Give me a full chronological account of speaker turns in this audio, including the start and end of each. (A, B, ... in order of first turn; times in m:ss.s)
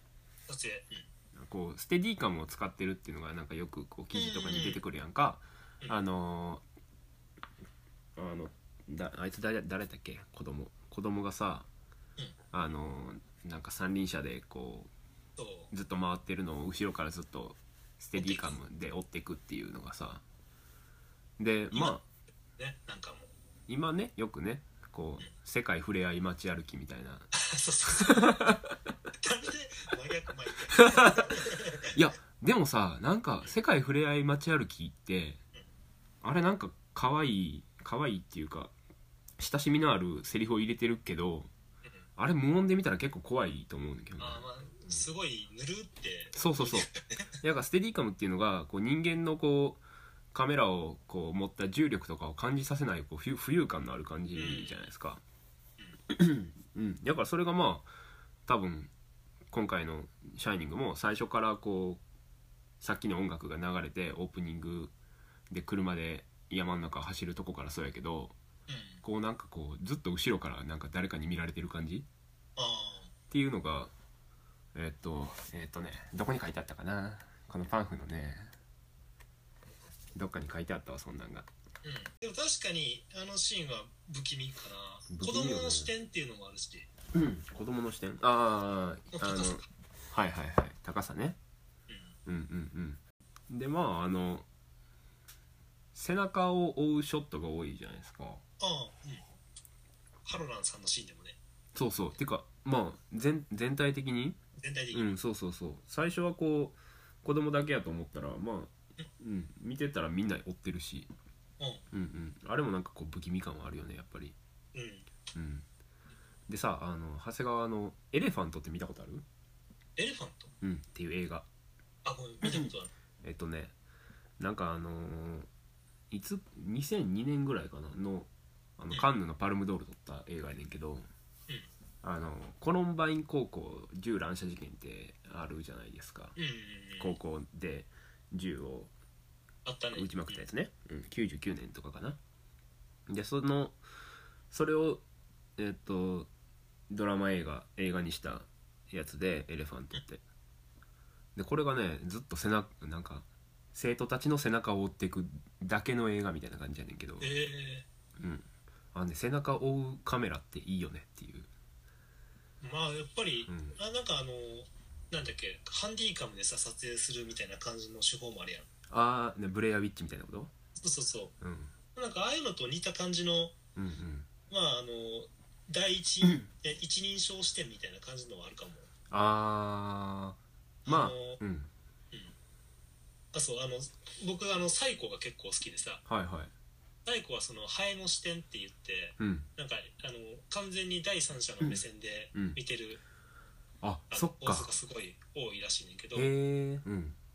0:00.5-0:01.1 A
0:01.4-0:06.6 B
0:04.2-0:04.8 A
0:08.2-0:11.7 B
0:12.5-0:14.9 B
0:15.4-0:15.7 A
0:15.7-0:20.2 B
0:18.2-0:18.6 A
0:21.4-0:22.0 B
0:21.7-0:22.0 A
0:22.6-0:23.3 A
0:23.7-0:27.3 B
0:27.3-0:28.6 A
0:27.9-0:28.8 B
0:29.2-0:32.0 A
0:30.7-0:31.4 B
0:31.9-0:35.4 B
0:36.2-0:38.7 B
0:39.4-0:41.5 B
0:42.2-0:45.1 B
0:44.2-0:47.2 A
0:46.3-0:49.8 B
0:50.3-0:55.2 B
0:54.4-0:54.8 A
0:56.1-0:57.9 B
0:58.5-0:58.9 B
0:59.5-1:02.0 B
1:02.8-1:04.9 B
1:05.5-1:08.4 B
1:08.7-1:09.0 A
1:09.0-1:12.1 B
1:12.6-1:13.1 A
1:13.3-1:13.9 B
1:14.7-1:18.5 B
1:20.2-1:21.5 B
1:21.8-1:26.9 A
1:25.1-1:25.9 B
1:27.1-1:31.4 B
1:29.1-1:29.6 A
1:32.3-1:34.5 B
1:35.9-1:38.4 B
1:38.6-1:39.2 A
1:40.2-1:41.4 A
1:41.8-1:44.4 B
1:44.6-1:45.1 A
1:44.9-1:51.1 B
1:51.9-1:54.4 B
1:54.7-1:55.1 A
1:55.4-1:55.7 B
1:56.5-1:59.2 B
2:00.0-2:00.5 A
2:00.6-2:01.5 B
2:02.0-2:02.9 A
2:02.4-2:02.7 B
2:03.2-2:03.7 B
2:04.4-2:05.5 B
2:06.1-2:11.1 B
2:12.0-2:16.4 B
2:16.4-2:17.2 A
2:17.0-2:18.9 B
2:19.6-2:20.4 A
2:20.0-2:22.2 B
2:23.1-2:23.8 B
2:24.5-2:25.0 B
2:25.6-2:26.3 B
2:26.9-2:30.2 B
2:31.4-2:37.3 B
2:37.2-2:37.8 A
2:38.2-2:41.5 B
2:42.6-2:48.7 A
2:43.5-2:43.8 B
2:48.9-2:50.5 B
2:50.8-2:51.3 A
2:51.4-2:51.7 B
2:52.0-2:53.6 A
2:53.8-2:54.3 B
2:54.5-2:58.9 A
2:56.2-2:56.5 B
2:59.1-3:01.7 B
3:00.8-3:01.4 A
3:03.3-3:06.0 A
3:06.1-3:06.5 B
3:07.0-3:13.0 A
3:09.2-3:09.5 B
3:13.8-3:14.7 B
3:14.1-3:16.3 A
3:16.1-3:17.2 B